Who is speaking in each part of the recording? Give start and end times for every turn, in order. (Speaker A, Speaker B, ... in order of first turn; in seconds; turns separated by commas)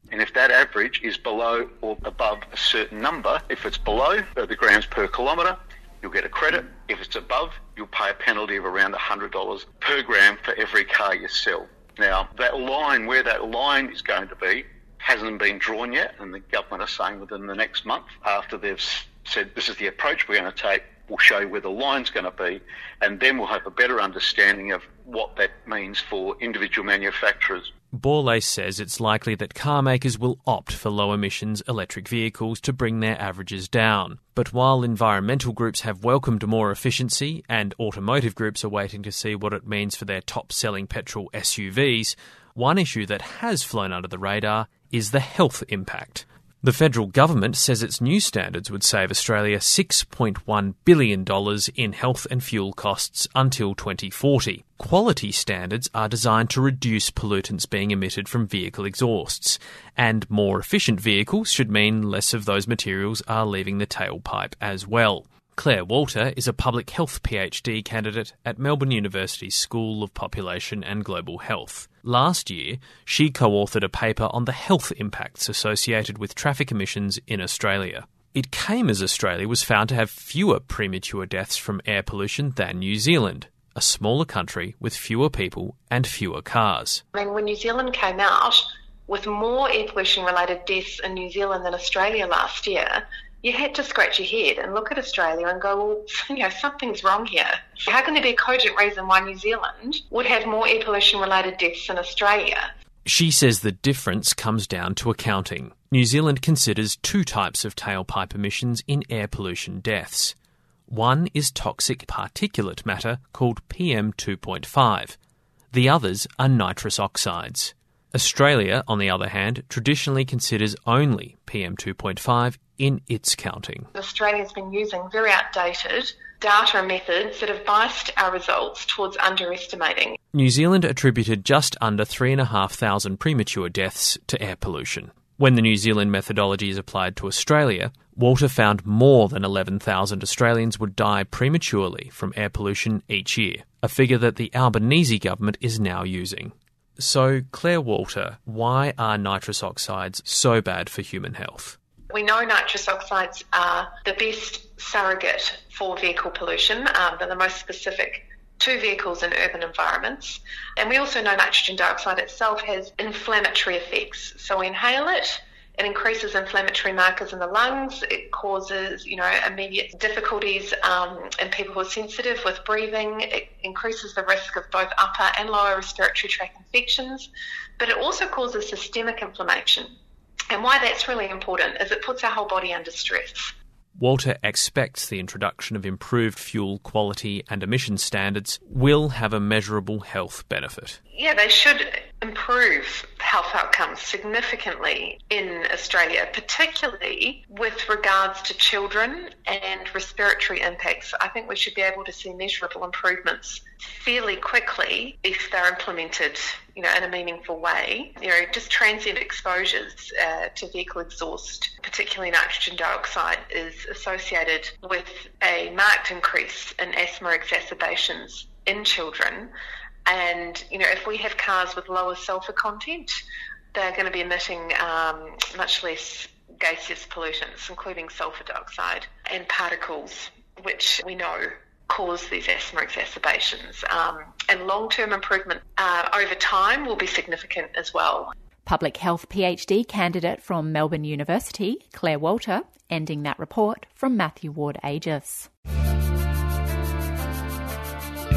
Speaker A: 0.1-27.7, Speaker B: 27.9-87.0, Speaker C: 87.1-102.7, Speaker B: 103.0-110.3, Speaker B: 110.9-115.2, Speaker B: 115.7-123.9, Speaker C: 123.9-130.2, Speaker B: 130.3-151.8, Speaker C: 152.1-179.9, Speaker C: 180.5-183.5, Speaker B: 183.9-191.0, Speaker C: 191.1-219.5, Speaker C: 220.1-223.2, Speaker C: 223.7-238.3, Speaker D: 238.6-245.5